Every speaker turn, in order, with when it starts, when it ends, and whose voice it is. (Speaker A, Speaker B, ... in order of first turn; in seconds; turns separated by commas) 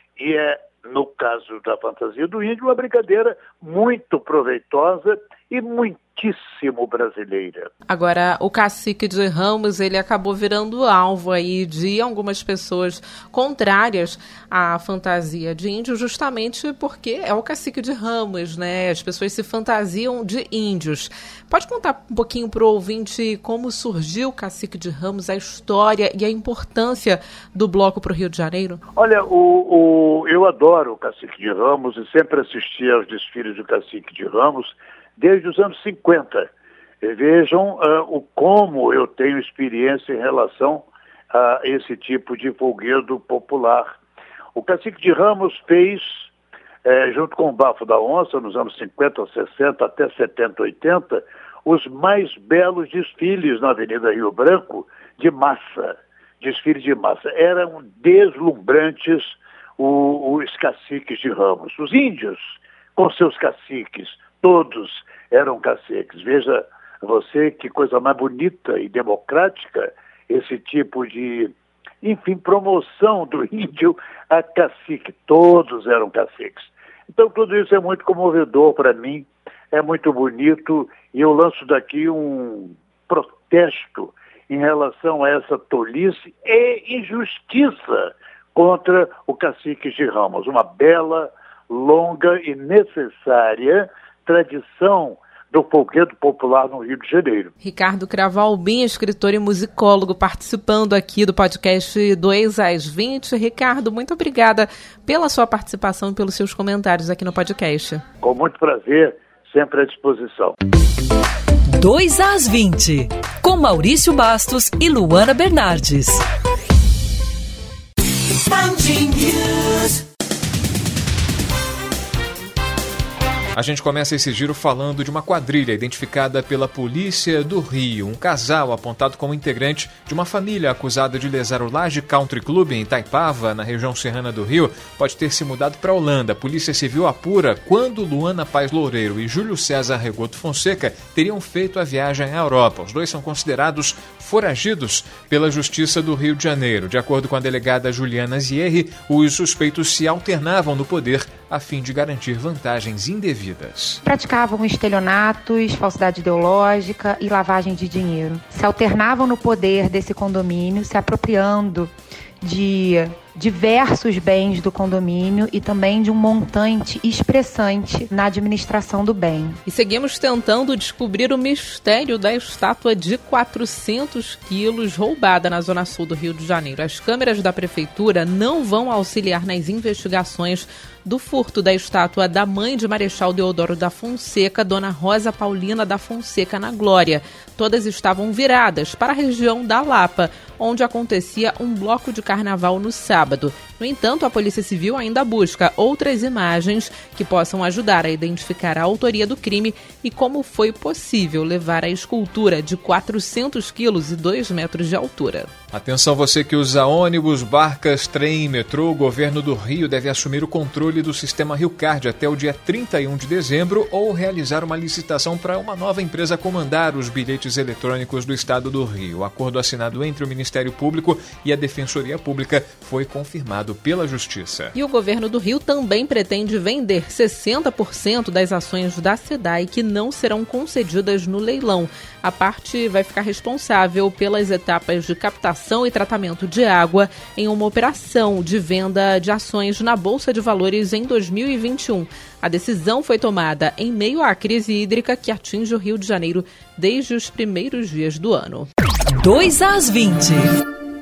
Speaker A: 0.2-7.7, Speaker B: 7.9-28.8, Speaker A: 28.9-36.5, Speaker A: 37.0-44.0, Speaker A: 44.5-46.3, Speaker A: 46.8-97.5, Speaker B: 97.6-108.0, Speaker A: 108.2-110.5, Speaker C: 111.7-116.2, Speaker D: 123.5-154.0, Speaker E: 154.0-169.6, Speaker B: 169.7-205.5, Speaker D: 205.7-224.7, Speaker B: 224.7-248.7, Speaker C: 249.1-250.5